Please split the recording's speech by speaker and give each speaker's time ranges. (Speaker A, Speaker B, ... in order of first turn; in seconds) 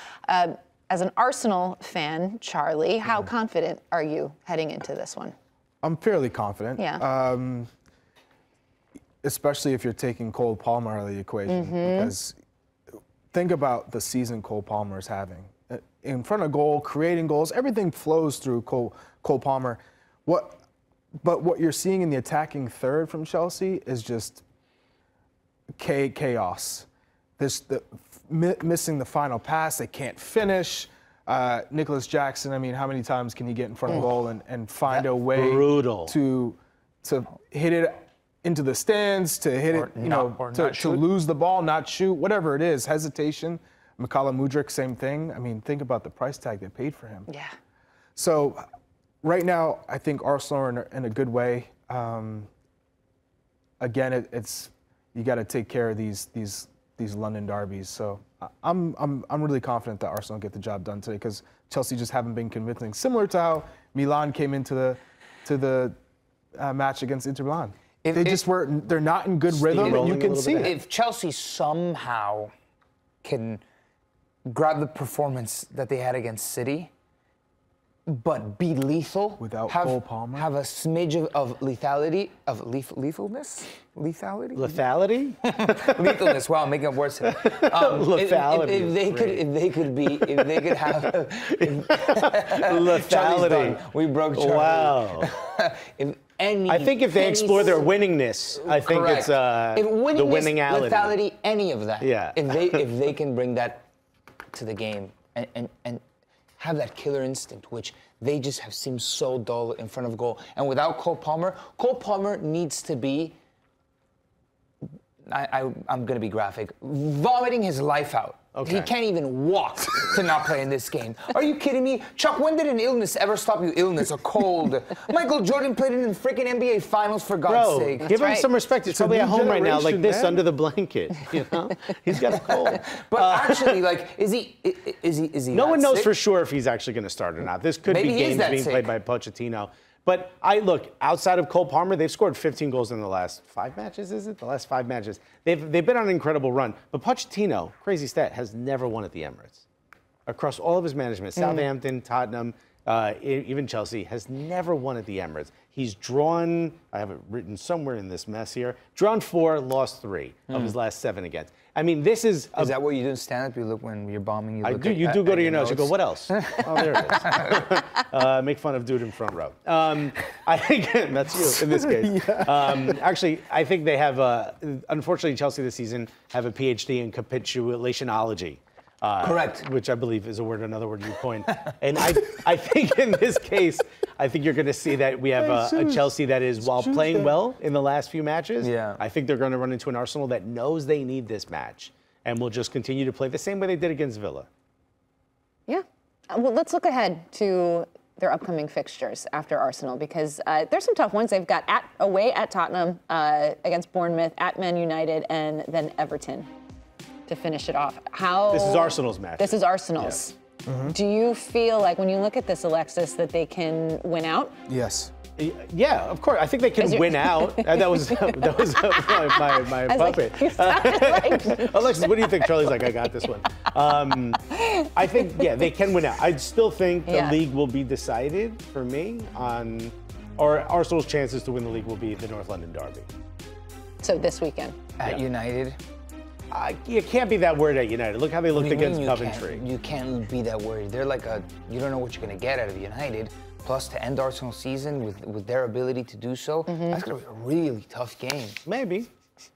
Speaker A: 0.3-5.3, 6.8-7.0, 11.5-12.1, 47.3-47.5, 128.1-128.5, 195.7-206.5, 207.3-210.4, 210.9-214.5, 216.8-223.1, 224.6-225.4, 227.1-227.4, 234.0-234.8
Speaker B: 5.8-7.7, 9.2-12.4, 13.3-20.6, 21.2-24.4, 25.8-26.9, 27.4-47.3, 48.2-48.6, 49.2-52.5, 53.8-66.0, 66.6-70.7, 79.4-80.5, 128.9-130.4, 171.6-172.9, 185.4-186.1, 186.6-187.3, 210.7-210.9, 214.7-215.1
Speaker C: 34.9-36.1, 69.5-70.8, 84.5-86.4, 87.2-93.8, 94.3-95.3, 96.7-101.2, 102.0-102.8, 118.5-118.9, 127.5-133.8, 135.5-149.6, 150.3-162.8, 164.6-194.5, 208.5-210.2, 215.4-233.1, 236.5-239.6, 248.7-249.1
Speaker D: 39.7-41.1, 68.0-68.4, 69.7-72.5, 73.2-73.6, 74.5-76.9, 78.1-84.8, 85.5-97.9, 98.6-103.9, 104.5-106.0, 106.6-113.4, 115.3-128.1, 132.6-136.1, 137.9-138.9, 160.5-160.8, 162.6-167.6, 179.2-179.7, 188.6-189.0, 235.0-235.8, 238.5-248.6